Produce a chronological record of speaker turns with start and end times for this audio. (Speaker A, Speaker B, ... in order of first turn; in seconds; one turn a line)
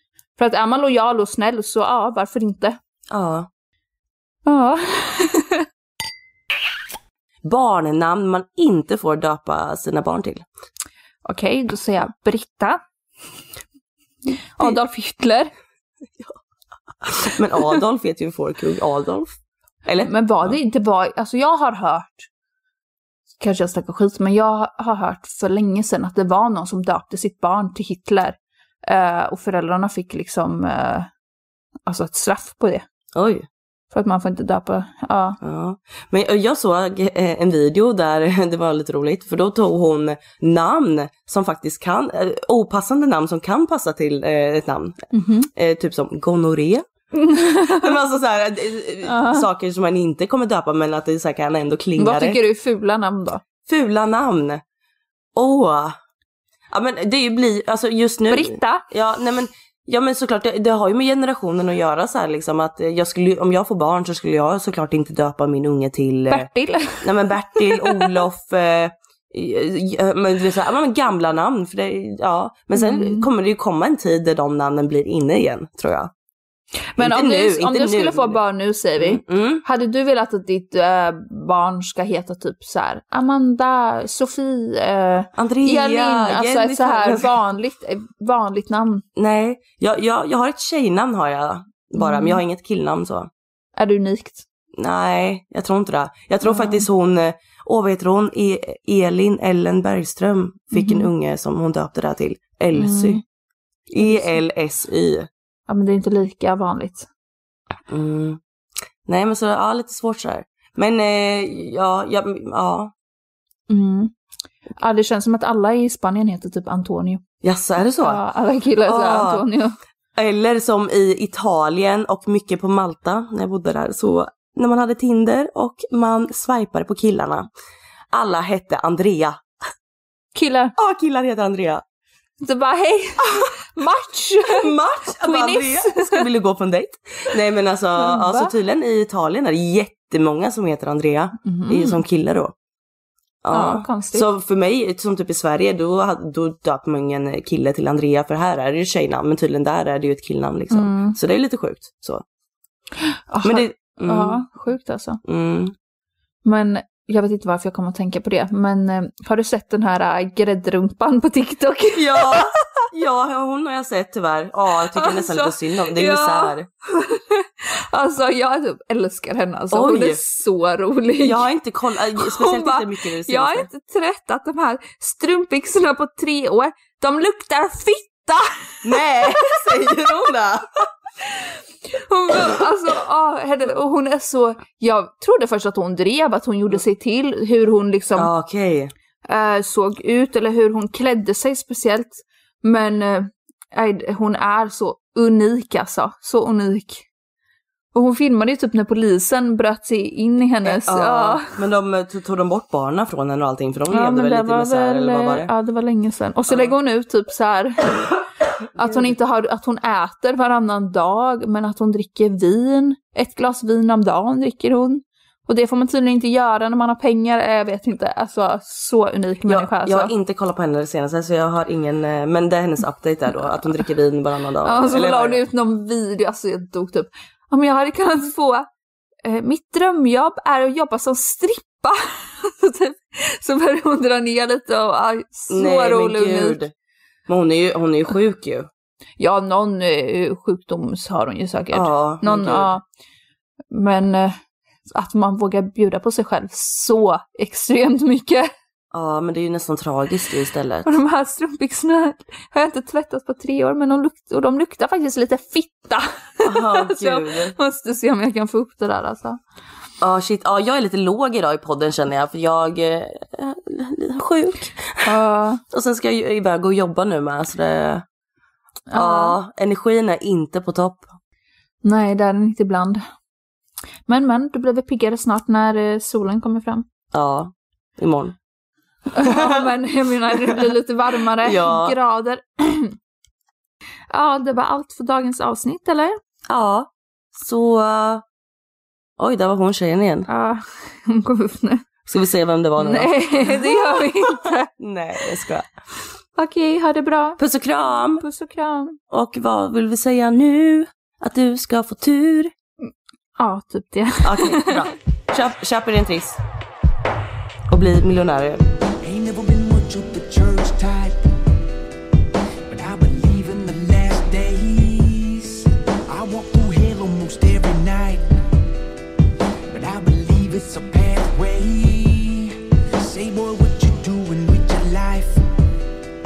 Speaker A: 0.4-2.8
Speaker B: 3.1-3.5
Speaker A: 4.5-5.6
Speaker B: 7.4-10.4
Speaker A: 11.3-12.8
Speaker A: 14.6-15.5
Speaker B: 17.0-19.3
Speaker B: 19.9-20.6
Speaker A: 20.1-22.3
Speaker A: 23.4-31.1
Speaker A: 31.9-32.9
Speaker B: 33.1-33.5
Speaker A: 33.9-35.4
Speaker B: 35.4-46.8
Speaker A: 45.1-45.5
Speaker A: 47.1-47.9
Speaker B: 47.4-52.4
Speaker A: 49.1-49.5
Speaker A: 52.0-53.4
Speaker B: 53.7-54.6
Speaker B: 55.4-56.0
Speaker B: 56.7-66.5
Speaker A: 58.3-58.9
Speaker A: 66.3-67.0
Speaker B: 67.0-76.1
Speaker A: 67.6-68.1
Speaker A: 72.7-73.3
Speaker A: 76.9-89.0
Speaker B: 77.0-78.4
Speaker B: 79.0-79.6
Speaker B: 85.4-87.3
Speaker B: 89.2-93.3
Speaker A: 92.0-92.4
Speaker A: 93.8-94.5
Speaker B: 94.8-103.2
Speaker A: 96.4-96.9
Speaker A: 100.7-101.1
Speaker A: 102.7-103.2
Speaker B: 103.9-105.3
Speaker A: 104.0-104.4
Speaker A: 105.7-107.1
Speaker B: 107.9-108.4
Speaker B: 109.1-112.9
Speaker A: 113.7-114.1
Speaker A: 114.8-117.2
Speaker B: 117.4-118.2
Speaker A: 118.0-119.7
Speaker B: 118.8-119.5
Speaker B: 120.2-127.5
Speaker B: 128.1-129.4
Speaker A: 130.3-130.7
Speaker B: 130.8-131.8
Speaker A: 132.4-134.6
Speaker B: 134.4-142.5
Speaker A: 135.2-136.2
Speaker A: 138.0-138.5
Speaker A: 141.4-142.0
Speaker B: 143.4-152.2
Speaker A: 143.5-144.3
Speaker A: 150.7-151.2
Speaker A: 153.3-155.2
Speaker B: 153.4-154.4
Speaker B: 155.2-155.7
Speaker A: 156.4-162.4
Speaker B: 161.9-166.7
Speaker A: 164.9-171.4
Speaker B: 169.7-170.2
Speaker B: 171.2-173.7
Speaker A: 172.2-179.0
Speaker B: 178.8-180.7
Speaker A: 181.9-188.3
Speaker B: 188.2-188.9
Speaker A: 189.3-197.1
Speaker A: 197.9-201.5
Speaker B: 200.7-205.5
Speaker A: 203.9-208.0
Speaker A: 208.8-220.1
Speaker B: 208.8-209.2
Speaker B: 219.5-225.4
Speaker A: 223.3-223.8
Speaker A: 224.6-228.7
Speaker A: 229.2-236.6
Speaker B: 235.5-236.7
Speaker B: 237.3-238.7
Speaker A: 239.2-242.8
Speaker B: 241.7-242.7
Speaker A: 243.7-244.4
Speaker A: 244.9-248.5
Speaker B: 248.9-250.9
Speaker A: 250.9-259.4
Speaker B: 256.4-257.5
Speaker B: 260.0-265.1
Speaker A: 265.1-265.6
Speaker B: 265.7-268.0
Speaker A: 268.9-269.4
Speaker B: 268.9-271.1
Speaker A: 271.8-273.0
Speaker A: 274.1-276.9
Speaker B: 277.1-278.4
Speaker A: 279.1-282.9
Speaker B: 279.2-279.7
Speaker B: 281.4-281.9
Speaker A: 284.1-286.2
Speaker B: 286.5-288.2
Speaker B: 289.2-290.3
Speaker A: 290.3-291.9
Speaker B: 292.1-295.7
Speaker A: 292.8-294.7
Speaker A: 296.4-297.4
Speaker B: 297.4-298.2
Speaker A: 298.2-299.0
Speaker B: 299.1-302.5
Speaker A: 303.4-304.9
Speaker B: 304.2-306.4
Speaker B: 307.7-308.6
Speaker C: 309.0-311.3
Speaker C: 312.7-318.3
Speaker C: 319.7-325.4